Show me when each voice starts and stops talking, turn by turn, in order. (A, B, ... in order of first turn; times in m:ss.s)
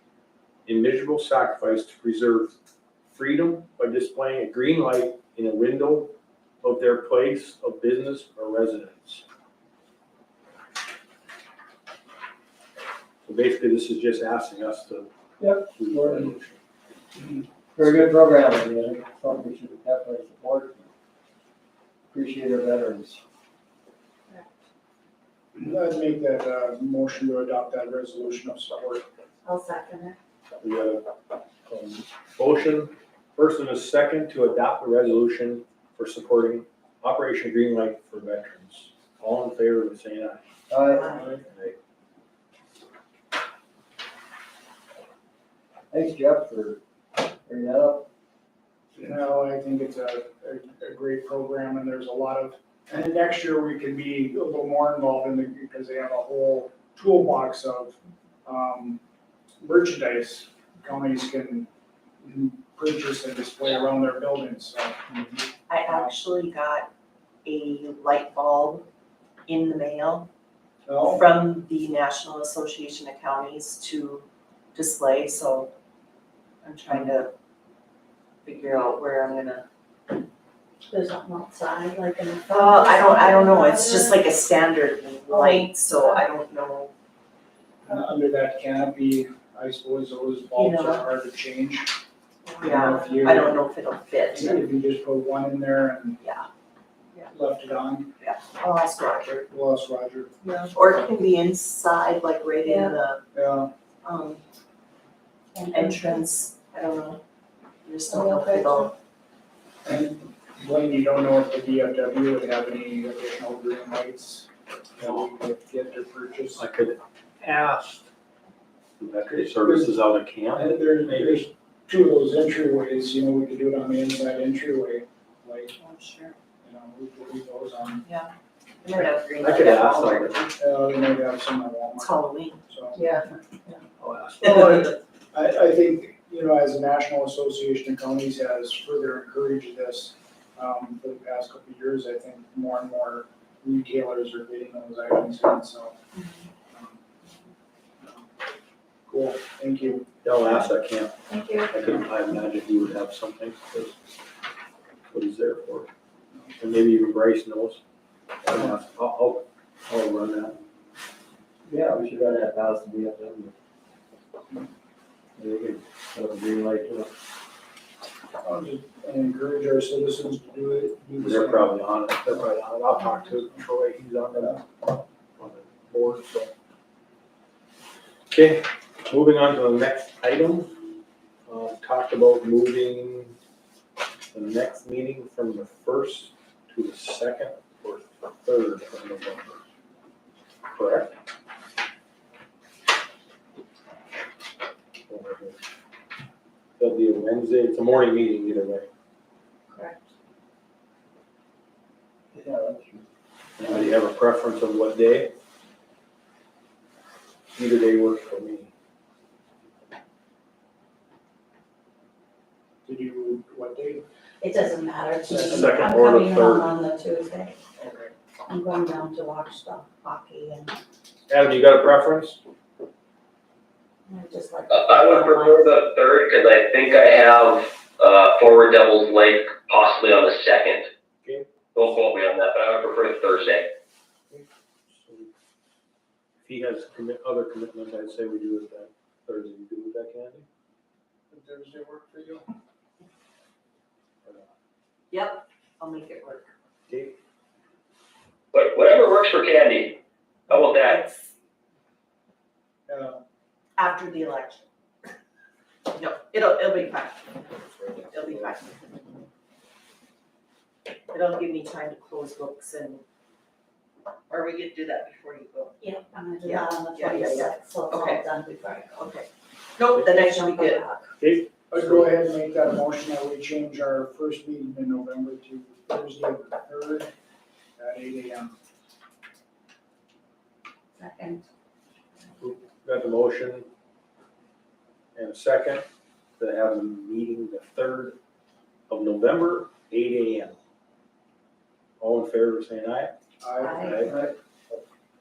0:00.6-0:02.5 A
0:03.1-0:09.2 A
0:13.2-0:15.1 A
0:15.4-0:16.3 B
0:15.7-0:16.6 A
0:17.7-0:20.9 B
0:22.1-0:23.2 B
0:25.5-0:29.0 C
0:29.4-0:30.2 D
0:30.6-0:31.0 A
0:31.7-0:40.4 A
0:40.7-0:41.2 B
0:40.9-0:41.3 D
0:41.4-0:41.8 A
0:45.9-0:46.8 B
0:47.4-0:48.1 B
0:48.9-0:59.0 C
0:59.6-1:01.7 C
1:02.2-1:05.2 C
1:05.7-1:06.9 E
1:05.8-1:06.1 C
1:07.4-1:08.8 E
1:09.5-1:10.3 E
1:10.8-1:11.2 C
1:11.0-1:15.7 E
1:16.6-1:17.3 E
1:18.4-1:19.6 E
1:20.8-1:24.3 D
1:22.5-1:26.9 E
1:25.3-1:26.2 D
1:27.8-1:31.9 C
1:30.5-1:31.1 E
1:32.4-1:33.2 D
1:32.6-1:33.6 C
1:32.6-1:34.6 E
1:34.3-1:36.2 C
1:36.2-1:36.5 E
1:37.3-1:38.1 C
1:38.2-1:39.5 E
1:39.5-1:40.4 C
1:40.4-1:43.2 E
1:42.6-1:43.0 D
1:43.3-1:43.7 C
1:44.0-1:44.4 E
1:45.5-1:46.2 D
1:45.7-1:47.2 E
1:47.8-1:48.9 E
1:48.0-1:48.9 D
1:49.8-1:56.6 C
1:55.0-1:55.3 A
1:56.6-1:58.1 A
1:59.0-2:01.4 A
1:59.5-2:00.0 C
2:00.5-2:05.7 C
2:05.7-2:06.4 E
2:06.6-2:08.0 C
2:08.0-2:08.3 E
2:08.8-2:10.5 E
2:09.4-2:10.4 A
2:10.6-2:13.0 C
2:12.0-2:12.6 E
2:12.9-2:13.8 D
2:14.0-2:14.9 A
2:14.4-2:26.0 C
2:26.7-2:27.0 C
2:28.0-2:28.2 C
2:29.1-2:30.1 C
2:30.2-2:31.2 A
2:31.3-2:31.7 D
2:31.7-2:34.0 A
2:35.1-2:35.9 A
2:36.6-2:37.8 A
2:38.4-2:40.6 A
2:38.5-2:38.8 C
2:41.7-2:43.5 B
2:45.4-2:47.1 B
2:48.4-2:51.7 C
2:51.2-2:54.6 A
2:55.4-2:56.5 A
2:58.3-3:00.7 A
3:01.5-3:03.4 A
3:04.3-3:09.6 A
3:10.7-3:11.1 A
3:15.1-3:15.6 A
3:16.8-3:18.9 A
3:19.7-3:20.1 D
3:22.3-3:23.1 B
3:23.6-3:25.3 A
3:23.6-3:23.9 B
3:27.5-3:28.7 A
3:32.8-3:34.0 C
3:34.4-3:37.5 D
3:35.3-3:36.7 A
3:37.8-3:38.1 E
3:38.5-3:40.7 D
3:41.3-3:42.4 A
3:44.1-3:45.8 D
3:44.7-3:50.9 F
3:51.7-3:53.7 F
3:54.3-3:55.3 A
3:56.4-4:00.5 A
4:01.3-4:02.4 C
4:05.1-4:06.5 E
4:06.9-4:07.2 A
4:08.5-4:10.0 F
4:10.5-4:11.3 E
4:10.5-4:11.0 F
4:12.9-4:13.2 C
4:13.8-4:14.6 E
4:15.9-4:17.4 E
4:17.6-4:18.6 A
4:18.1-4:18.8 E
4:21.1-4:23.0 E
4:24.3-4:25.8 E
4:25.8-4:29.0 D
4:26.4-4:28.2 E
4:29.0-4:30.8 E
4:30.0-4:31.1 D
4:31.2-4:32.2 A
4:31.7-4:37.1 C
4:37.8-4:38.6 C
4:41.0-4:41.4 D
4:42.4-4:43.7 A
4:45.2-4:45.8 A
4:46.4-4:48.2 A
4:48.9-4:50.6 A
4:52.0-4:53.1 A
4:53.4-4:53.9 C
4:53.6-4:54.1 D
4:53.7-4:54.1 A
4:54.0-4:54.4 B